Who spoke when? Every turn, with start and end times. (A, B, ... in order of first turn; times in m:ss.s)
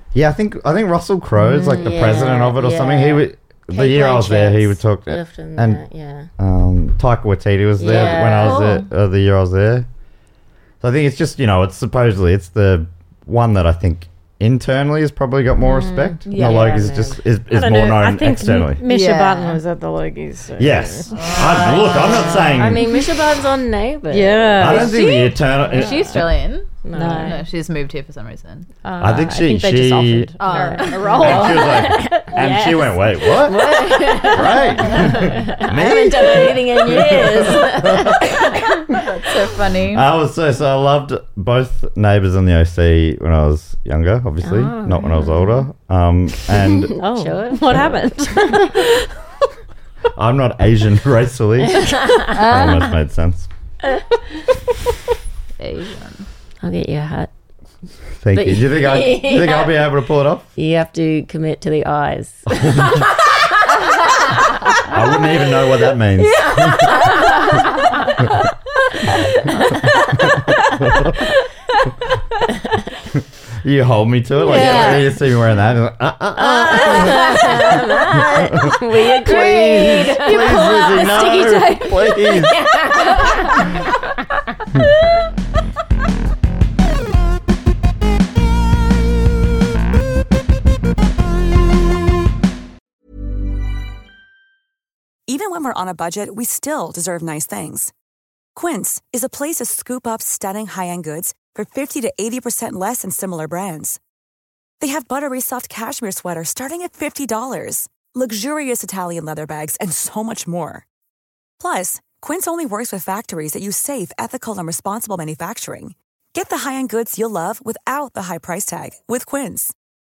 0:00.1-0:05.8 A
0:01.6-0:06.3 B
0:06.4-0:09.9 A
0:07.8-0:08.7 B
0:07.8-0:08.9 C
0:10.8-0:18.8 A
0:15.6-0:17.2 B
0:16.2-0:17.0 C
0:17.5-0:22.6 D
0:18.8-0:19.6 C
0:20.6-0:22.8 A
0:21.1-0:22.3 C
0:21.6-0:24.9 B
0:24.1-0:25.0 D
0:24.6-0:26.3 A
0:24.6-0:28.7 C
0:26.8-0:27.4 B
0:26.9-0:27.4 D
0:28.8-0:32.2 D
0:29.0-0:30.3 A
0:30.4-0:31.4 C
0:30.5-0:39.0 B
0:31.2-0:33.7 A
0:34.2-0:38.1 A
0:39.0-0:40.0 C
0:39.9-0:46.9 A
0:44.4-0:45.6 B
0:46.9-0:48.7 D
0:46.9-0:48.5 B
0:47.7-0:48.0 A
0:50.2-0:53.5 A
0:51.7-0:52.3 B
0:52.3-0:52.9 C
0:55.6-0:56.3 C
0:56.6-0:57.3 B
0:58.2-1:00.5 A
0:58.3-0:59.8 B
1:00.6-1:03.8 B
1:04.7-1:05.2 B
1:04.9-1:06.9 A
1:06.2-1:08.1 B
1:09.0-1:11.1 B
1:10.8-1:11.1 A
1:13.6-1:18.2 A
1:14.5-1:15.1 C
1:14.5-1:15.0 B
1:16.4-1:21.3 B
1:18.7-1:22.6 A
1:20.3-1:22.0 D
1:22.4-1:23.7 B
1:35.3-1:37.9 E
1:38.5-1:44.0 E
1:44.8-1:50.8 E
1:51.6-1:59.7 E